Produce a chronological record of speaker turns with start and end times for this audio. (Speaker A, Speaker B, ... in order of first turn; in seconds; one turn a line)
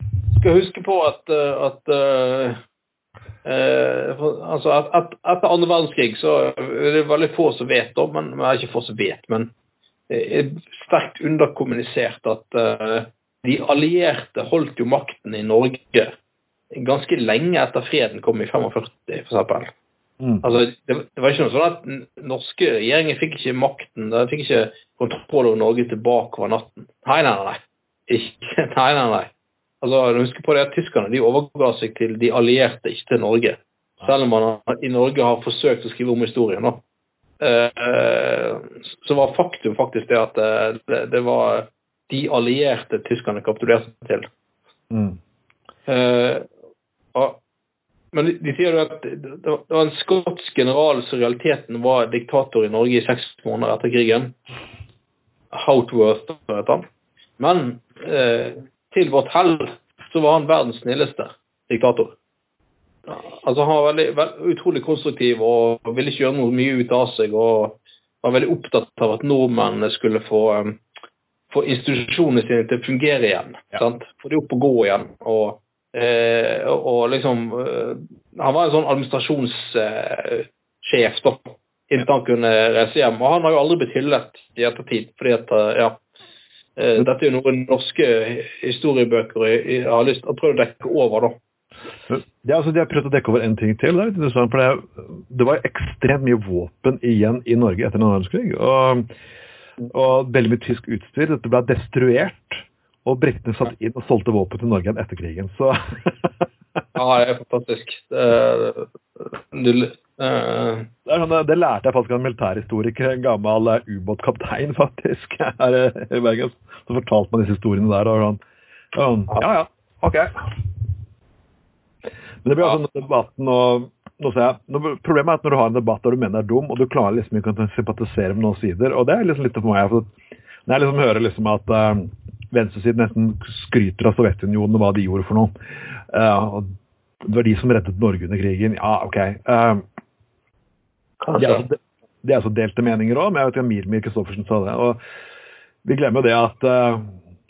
Speaker A: 0.3-2.6
Speaker A: 3.4-9.5
Speaker A: 10.1-16.1
Speaker A: 16.7-19.7
Speaker B: 20.2-20.5
Speaker A: 20.4-29.3
Speaker A: 29.8-36.8
Speaker A: 37.4-44.3
Speaker B: 44.9-45.2
Speaker A: 45.9-46.4
Speaker A: 47.1-47.4
Speaker A: 48.1-54.4
Speaker A: 55.5-56.8
Speaker A: 57.4-62.1
Speaker A: 63.1-70.8
Speaker A: 71.5-86.0
Speaker A: 86.8-91.4
Speaker B: 92.1-99.1
Speaker B: 99.9-106.3
Speaker A: 106.9-110.9
Speaker B: 111.0-118.4
Speaker B: 118.9-120.6
Speaker B: 122.4-130.1
Speaker B: 130.7-135.5
Speaker B: 136.1-136.7
Speaker B: 137.2-139.8
Speaker A: 141.2-141.7
Speaker B: 141.3-145.0
Speaker B: 145.8-147.2